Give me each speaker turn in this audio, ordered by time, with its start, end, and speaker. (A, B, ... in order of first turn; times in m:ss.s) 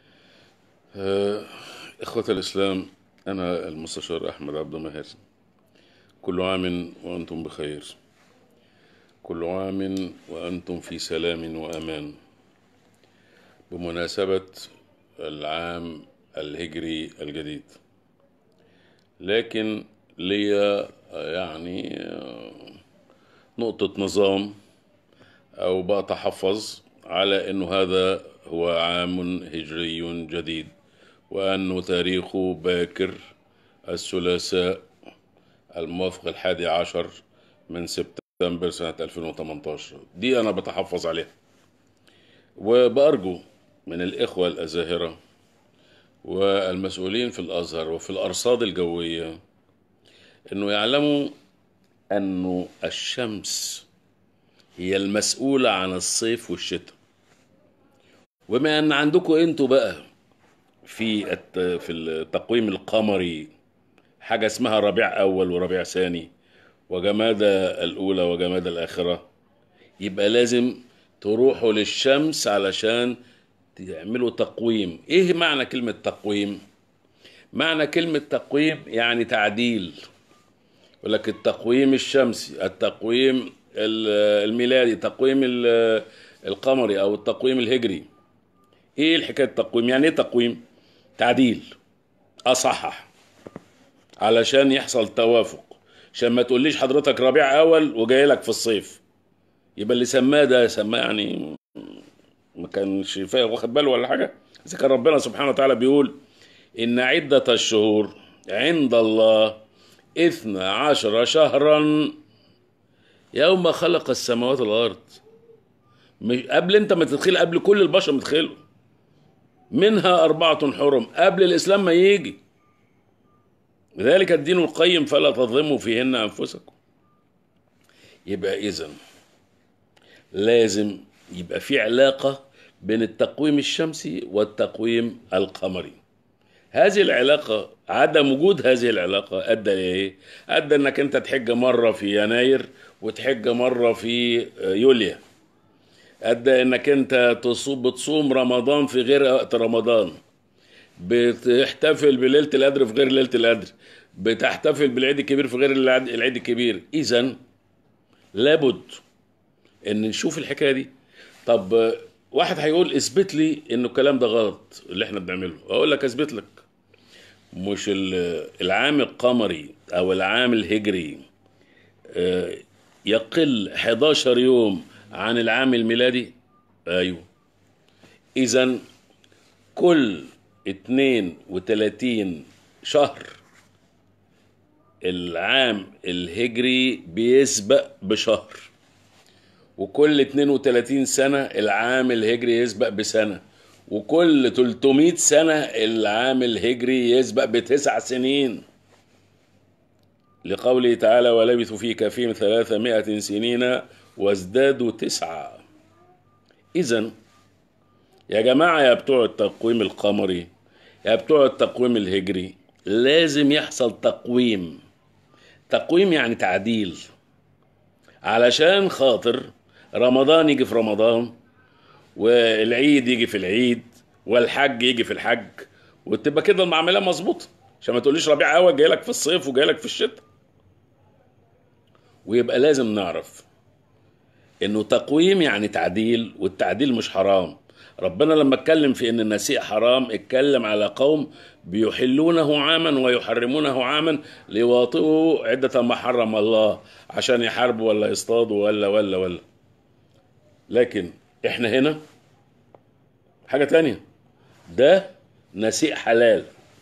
0:00.9-0:05.1 A
0:06.2-0:07.9 A
0:09.2-0:12.2 A
0:13.7-0:17.8 A
0:19.2-0:22.7 A
0:23.6-0:24.6 A
0:25.6-0:30.7 A
0:31.3-0:33.2 A
0:33.9-0:34.8 A
0:35.7-0:37.1 A
0:37.7-0:41.3 A
0:42.6-0:45.2 A
0:46.2-0:49.3 A
0:50.5-0:51.3 A
0:52.1-0:53.8 A
0:54.8-0:57.0 A
0:58.5-1:00.0 A
1:00.8-1:03.5 A
1:04.2-1:06.3 A
1:06.9-1:09.2 A
1:10.0-1:13.2 A
1:13.7-1:16.6 A
1:17.5-1:20.0 A
1:21.0-1:28.1 A
1:29.0-1:30.6 A
1:31.2-1:31.7 A
1:32.5-1:33.1 A
1:34.2-1:39.0 A
1:39.8-1:42.0 A
1:42.6-1:46.2 A
1:46.8-1:49.6 A
1:50.2-1:52.2 A
1:53.3-1:55.2 A
1:56.2-1:58.6 A
1:59.7-2:02.4 A
2:04.0-2:06.8 A
2:08.3-2:09.0 A
2:10.3-2:16.0 A
2:16.7-2:25.2 A
2:26.2-2:30.2 A
2:31.0-2:37.4 A
2:38.3-2:39.0 A
2:39.8-2:40.9 A
2:41.4-2:46.6 A
2:47.5-2:51.2 A
2:52.1-2:56.3 A
2:56.9-2:57.3 A
2:58.4-2:58.8 A
2:59.7-3:03.4 A
3:05.0-3:08.7 A
3:09.8-3:18.6 A
3:20.4-3:25.6 A
3:26.7-3:27.1 A
3:28.3-3:30.5 A
3:31.0-3:34.8 A
3:35.7-3:37.0 A
3:38.2-3:41.3 A
3:42.2-3:50.2 A
3:52.2-3:53.4 A
3:54.6-4:09.4 A
4:10.7-4:12.0 A
4:13.4-4:14.0 A
4:14.7-4:16.5 A